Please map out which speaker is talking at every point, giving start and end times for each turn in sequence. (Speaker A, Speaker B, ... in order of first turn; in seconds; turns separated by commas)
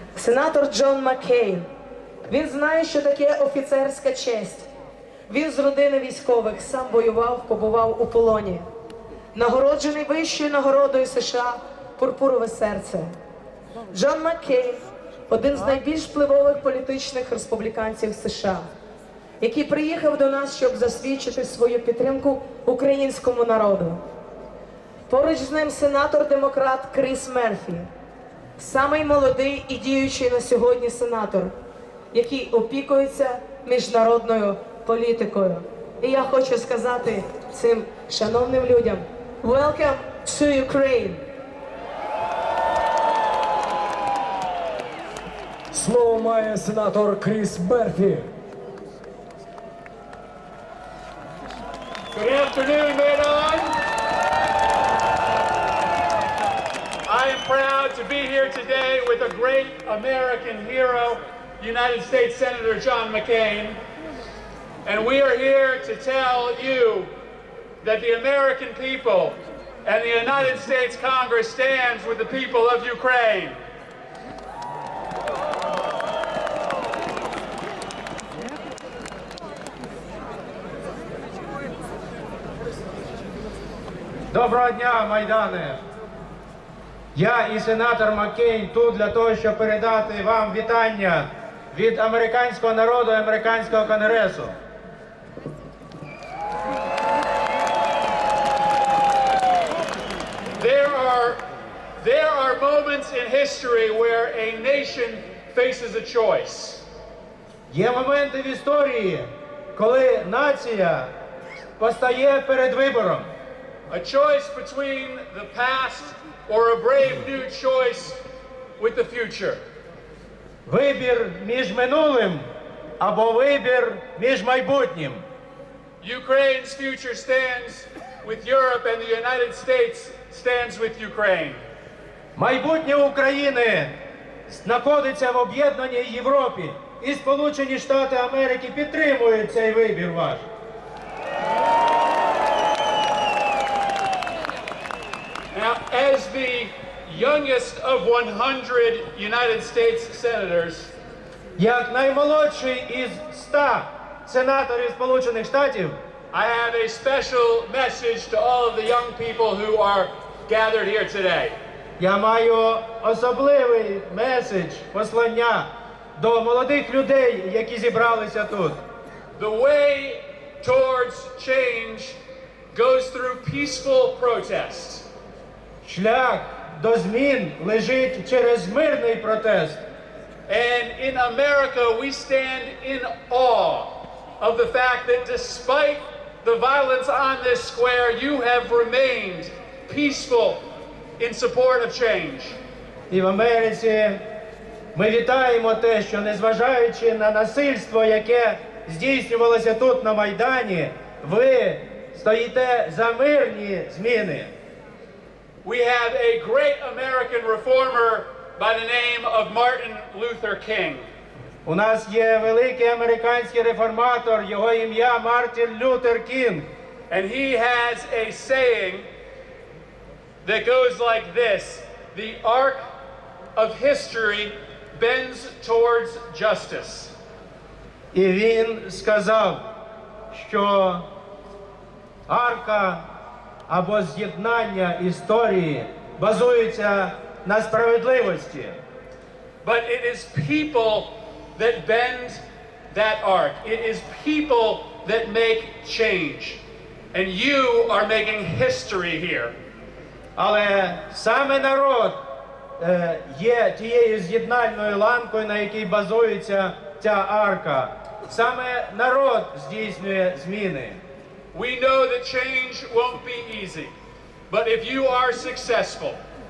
Speaker A: 0.1-1.7, Speaker A: 2.3-4.7, Speaker A: 5.3-8.7, Speaker A: 9.3-13.1, Speaker A: 13.9-18.7, Speaker A: 19.4-24.0, Speaker A: 25.1-27.9, Speaker A: 28.6-31.5, Speaker A: 32.1-41.2, Speaker B: 45.7-48.3, Speaker C: 52.1-53.8, Speaker C: 57.1-63.8, Speaker C: 64.8-67.1, Speaker C: 67.8-73.6, Speaker D: 84.3-85.8, Speaker D: 87.1-94.5, Speaker C: 100.6-101.4, Speaker C: 102.0-106.8, Speaker D: 107.7-111.1, Speaker D: 111.8-113.3, Speaker C: 113.9-118.2, Speaker C: 118.8-119.6, Speaker D: 120.7-122.5, Speaker D: 123.0-125.2, Speaker C: 126.0-131.6, Speaker D: 132.3-133.9, Speaker D: 134.5-140.5, Speaker C: 145.5-150.9, Speaker D: 151.6-156.0, Speaker C: 156.3-161.6, Speaker D: 162.0-168.8, Speaker C: 169.3-172.2, Speaker C: 172.7-175.1, Speaker D: 175.8-179.8, Speaker C: 180.5-190.6, Speaker C: 191.2-192.6, Speaker D: 193.1-194.2, Speaker D: 194.9-204.5, Speaker C: 205.6-211.1, Speaker D: 211.6-216.7, Speaker C: 217.1-219.1, Speaker C: 220.4-222.9, Speaker C: 223.6-227.1, Speaker D: 228.1-229.6, Speaker D: 230.3-231.1, Speaker D: 232.3-233.0, Speaker D: 233.7-238.8, Speaker C: 239.6-246.6, Speaker C: 247.1-249.5, Speaker D: 250.3-252.2, Speaker D: 252.8-261.0, Speaker C: 261.5-263.9, Speaker C: 264.5-266.2